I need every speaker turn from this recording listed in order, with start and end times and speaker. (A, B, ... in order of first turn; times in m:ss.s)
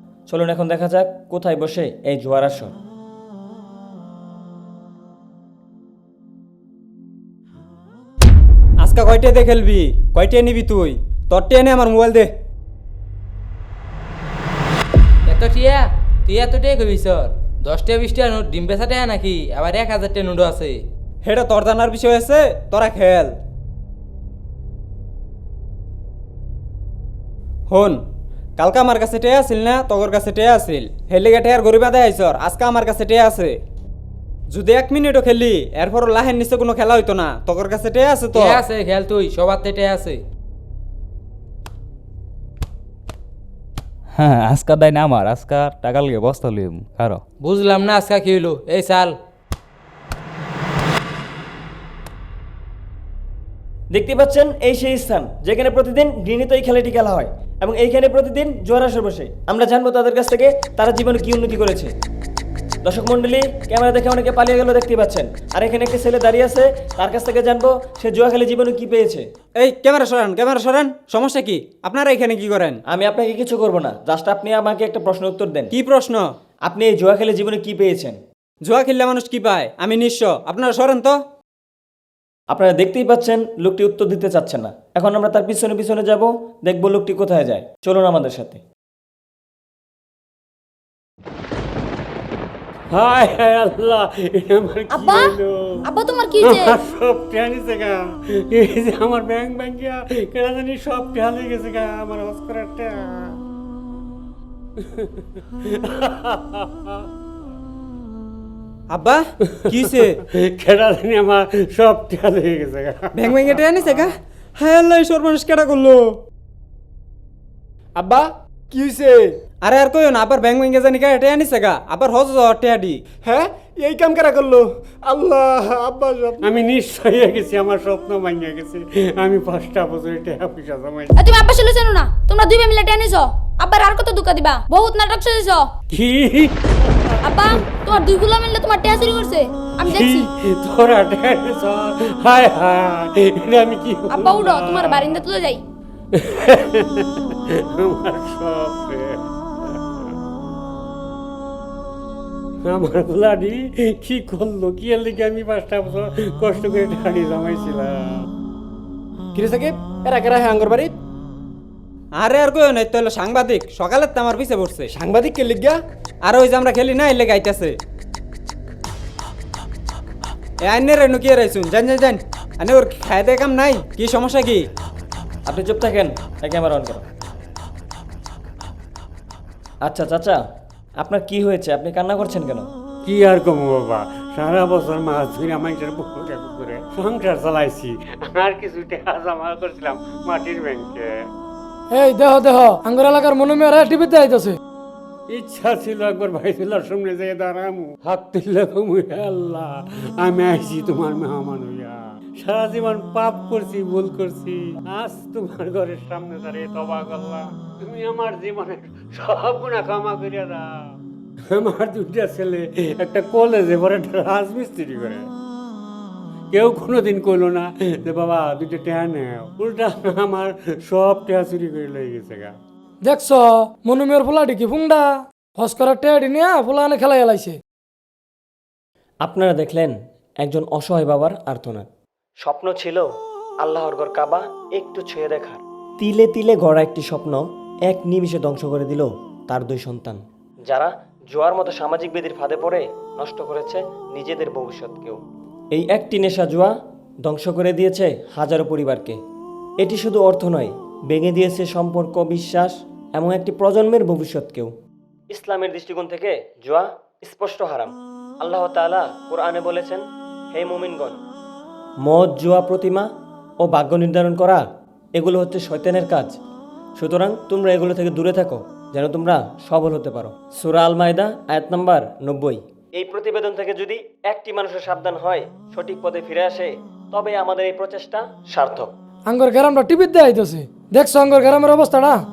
0:00.3-0:02.7 A
0:08.8-0:12.3 B
0:15.2-0:20.8 C
0:21.2-0:23.3 B
0:27.7-0:28.0 B
0:28.6-0:33.6 B
0:34.5-0:38.6 B
0:38.3-0:40.2 C
0:44.1-0:47.2 D
0:47.4-0:49.2 C
0:53.9-1:01.9 A
1:02.8-1:09.2 A
1:09.6-1:12.8 B
1:12.9-1:15.7 A
1:15.7-1:16.2 B
1:16.7-1:18.2 A
1:18.7-1:21.2 B
1:22.5-1:28.6 A
1:32.9-1:35.9 E
1:34.9-1:36.8 F
1:36.4-1:43.4 E
1:44.8-1:47.0 E
1:48.9-1:50.2 B
1:49.5-1:54.1 E
1:53.1-1:56.2 B
1:58.0-1:59.4 G
1:59.6-2:03.0 B
2:03.2-2:06.4 G
2:06.4-2:11.4 E
2:11.1-2:15.7 F
2:15.9-2:17.8 E
2:17.2-2:20.3 F
2:19.8-2:25.2 E
2:24.1-2:25.6 F
2:26.1-2:30.1 E
2:32.6-2:38.2 E
2:39.3-2:40.9 G
2:42.2-2:44.9 B
2:44.9-2:45.8 G
2:46.3-2:47.8 B
2:50.6-2:54.6 B
2:55.5-2:57.0 A
2:59.9-3:00.4 A
3:01.0-3:02.7 A
3:03.0-3:11.2 E
3:12.0-3:14.5 H
3:15.3-3:30.9 E
3:31.5-3:35.3 E
3:36.5-3:42.5 E
3:43.1-3:45.0 H
3:45.6-3:47.6 H
3:49.2-3:51.9 A
3:52.4-3:53.1 A
3:53.6-4:05.2 A
4:05.7-4:06.7 A
4:07.3-4:09.2 A
4:09.8-4:14.7 A
4:15.3-4:20.0 A
4:20.5-4:21.2 A
4:22.1-4:23.1 A
4:23.6-4:24.6 A
4:25.2-4:26.4 A
4:27.0-4:38.9 A
4:39.3-4:42.2 H